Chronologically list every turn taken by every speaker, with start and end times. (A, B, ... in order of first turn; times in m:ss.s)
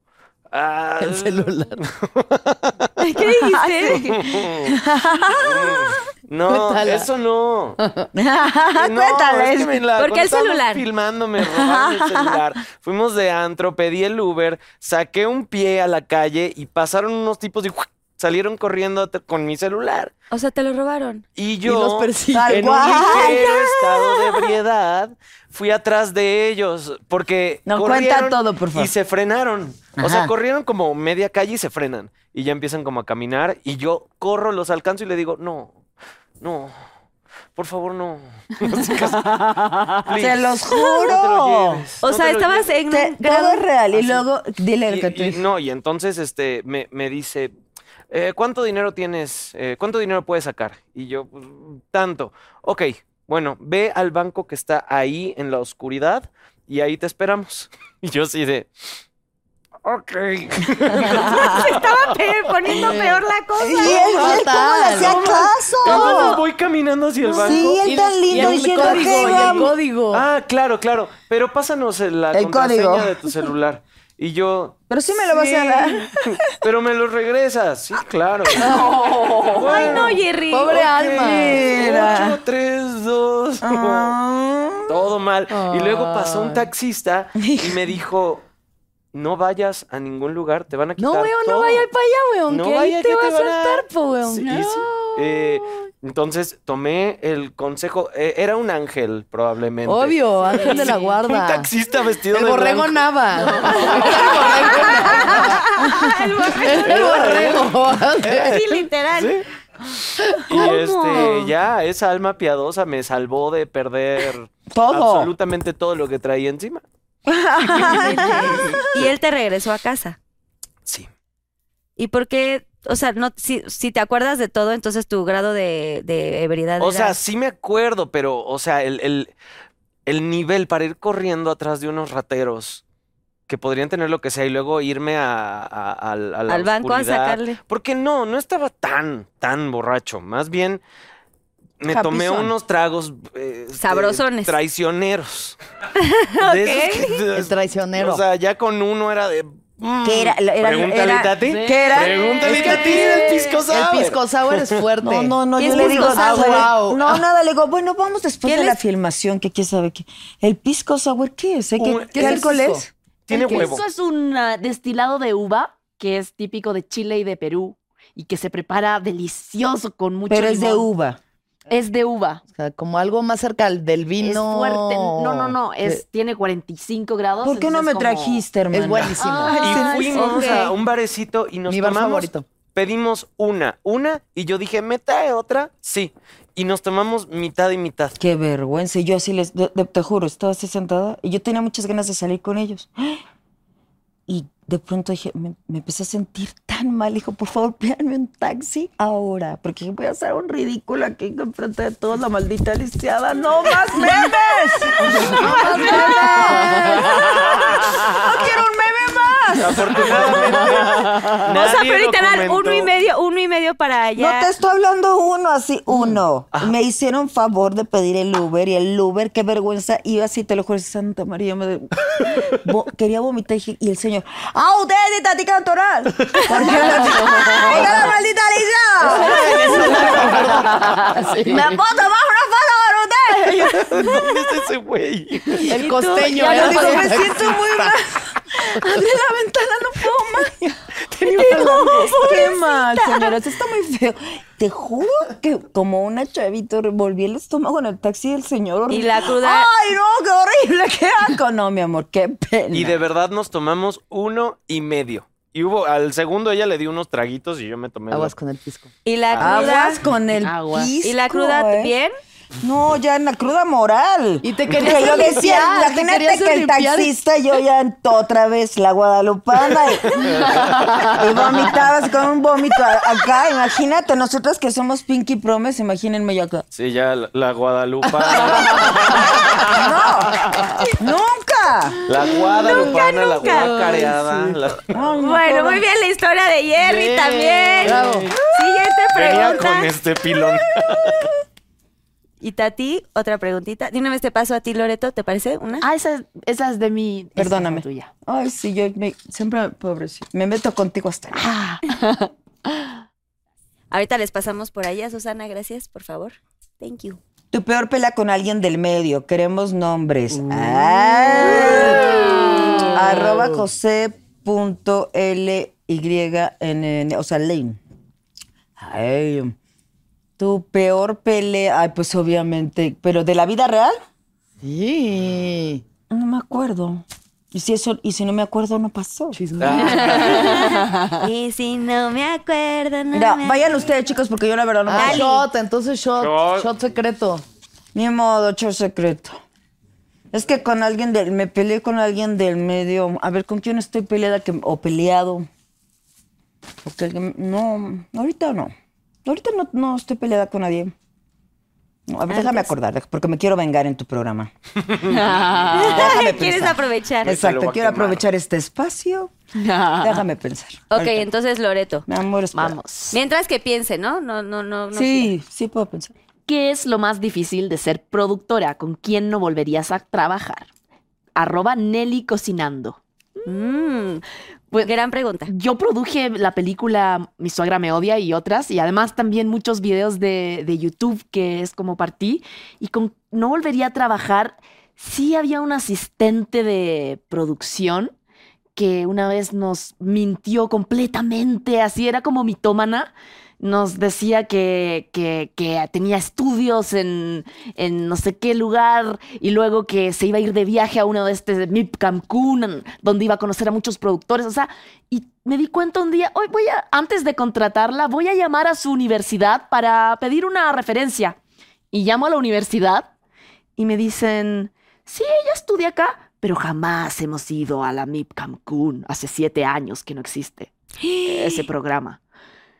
0:00.5-0:02.9 A
0:01.0-0:01.8 B
0:03.0-0:04.2 C
0:03.4-0:05.9 D
0:03.9-0:04.8 A
0:05.4-0:07.8 A
0:06.5-0:07.1 B
0:07.8-0:08.1 B
0:08.1-0:09.8 D
0:08.8-0:20.1 A
0:10.0-0:10.8 C
0:11.4-0:12.4 D
0:20.3-0:21.2 C
0:21.4-0:35.8 A
0:21.6-0:23.4 B
0:22.3-0:23.7 D
0:27.6-0:28.9 D
0:30.0-0:30.3 D
0:36.4-0:36.8 A
0:37.5-0:42.7 A
0:40.0-0:41.8 D
0:42.0-0:43.6 C
0:42.9-0:45.4 D
0:43.9-0:44.2 A
0:44.9-0:47.5 A
0:48.1-0:58.7 A
0:59.8-1:01.9 A
1:01.1-1:01.4 D
1:01.2-1:04.3 C
1:02.7-1:03.2 B
1:03.6-1:06.4 D
1:03.8-1:05.4 B
1:04.2-1:14.8 A
1:05.9-1:06.3 C
1:07.4-1:09.8 D
1:07.4-1:10.2 B
1:12.3-1:13.4 D
1:14.9-1:16.6 D
1:15.2-1:16.0 B
1:16.6-1:24.1 A
1:18.6-1:19.8 E
1:18.6-1:19.0 B
1:19.7-1:20.8 C
1:19.9-1:21.7 B
1:21.1-1:22.4 D
1:23.6-1:25.0 D
1:24.9-1:28.4 A
1:25.5-1:26.6 B
1:27.4-1:28.0 D
1:29.1-1:31.9 A
1:31.0-1:35.6 B
1:32.5-1:45.6 A
1:39.8-1:41.7 B
1:42.3-1:48.8 B
1:45.0-1:47.4 C
1:46.6-1:48.6 A
1:48.3-1:49.4 C
1:49.1-1:49.4 A
1:50.2-1:56.8 A
1:50.5-1:51.5 C
1:54.7-1:55.3 D
1:57.3-1:58.8 D
1:57.8-1:59.1 A
1:57.9-2:00.2 C
2:02.0-2:07.2 C
2:06.8-2:09.3 A
2:10.0-2:12.8 A
2:13.5-2:20.8 A
2:16.5-2:17.6 C
2:21.8-2:25.6 A
2:21.9-2:22.5 D
2:23.7-2:24.6 C
2:26.0-2:27.2 C
2:26.4-2:34.8 A
2:27.3-2:28.2 B
2:30.0-2:32.7 D
2:31.4-2:33.6 E
2:32.4-2:37.2 B
2:35.0-2:42.9 D
2:35.6-2:36.7 C
2:38.4-2:38.8 C
2:41.8-2:42.5 A
2:42.1-2:42.9 B
2:43.3-2:43.8 A
2:43.3-2:50.9 E
2:50.3-2:51.2 D
2:51.7-2:52.4 E
2:52.5-2:56.0 B
2:54.2-2:58.4 E
2:57.4-3:00.7 D
2:58.7-2:59.8 B
2:59.2-3:00.2 E
2:59.6-3:08.2 A
3:00.2-3:00.7 C
3:01.7-3:02.4 B
3:08.2-3:13.2 D
3:14.3-3:31.4 D
3:25.2-3:27.4 B
3:29.6-3:32.9 A
3:31.4-3:34.5 C
3:34.2-3:50.7 D
3:49.0-3:51.7 B
3:51.0-3:51.4 E
3:51.4-3:54.4 D
3:53.5-3:55.7 A
3:55.6-3:58.0 B
3:55.7-3:57.2 C
3:56.2-4:13.0 D
4:01.3-4:03.4 C
4:08.9-4:09.7 C
4:12.7-4:18.3 A
4:18.1-4:18.9 B
4:19.0-4:20.0 C
4:19.3-4:19.6 A
4:19.4-4:21.9 D
4:20.4-4:20.9 E
4:21.0-4:22.1 C
4:22.6-4:36.6 D
4:24.4-4:27.1 B
4:30.6-4:31.2 E
4:36.7-4:40.6 A
4:38.2-4:38.9 B
4:39.1-4:40.4 D
4:41.0-4:42.0 D
4:42.1-4:45.0 A
4:42.6-4:43.8 C
4:43.4-4:44.6 B
4:44.9-4:45.8 D
4:45.2-4:49.9 C
4:47.8-4:48.3 B
4:47.8-4:48.3 A
4:49.1-4:51.3 A
4:52.4-4:55.8 C
4:55.8-4:58.1 E
4:57.4-5:01.6 D
5:01.4-5:02.3 E
5:03.9-5:07.2 C
5:07.5-5:17.8 D
5:11.6-5:12.9 C
5:12.2-5:12.6 E
5:18.8-5:19.6 D
5:20.4-5:24.0 D
5:24.6-5:25.8 B
5:26.1-5:29.4 D
5:29.3-5:30.4 B
5:29.6-5:30.6 A
5:30.0-5:33.6 C
5:33.1-5:35.4 D
5:34.9-5:37.4 B
5:34.9-5:35.4 C
5:36.2-5:36.7 A
5:37.9-5:39.4 D
5:40.3-5:45.5 D
5:46.8-5:48.7 D
5:49.2-5:50.9 D
5:52.1-5:54.5 D
5:55.0-5:56.1 E
5:55.7-5:57.3 C
5:55.7-5:59.3 D
5:57.2-5:58.2 A
5:59.5-6:00.2 E
6:00.0-6:01.3 D
6:00.9-6:02.0 C
6:02.1-6:02.8 D
6:02.5-6:03.2 E
6:03.1-6:05.3 C
6:04.9-6:06.1 D
6:06.5-6:10.7 E
6:11.4-6:13.0 E
6:13.4-6:14.2 C
6:14.8-6:15.5 C
6:15.4-6:28.1 E
6:28.8-6:51.4 E
6:51.9-6:53.1 E
6:53.8-7:00.7 E
7:01.0-7:01.7 C
7:01.2-7:02.2 E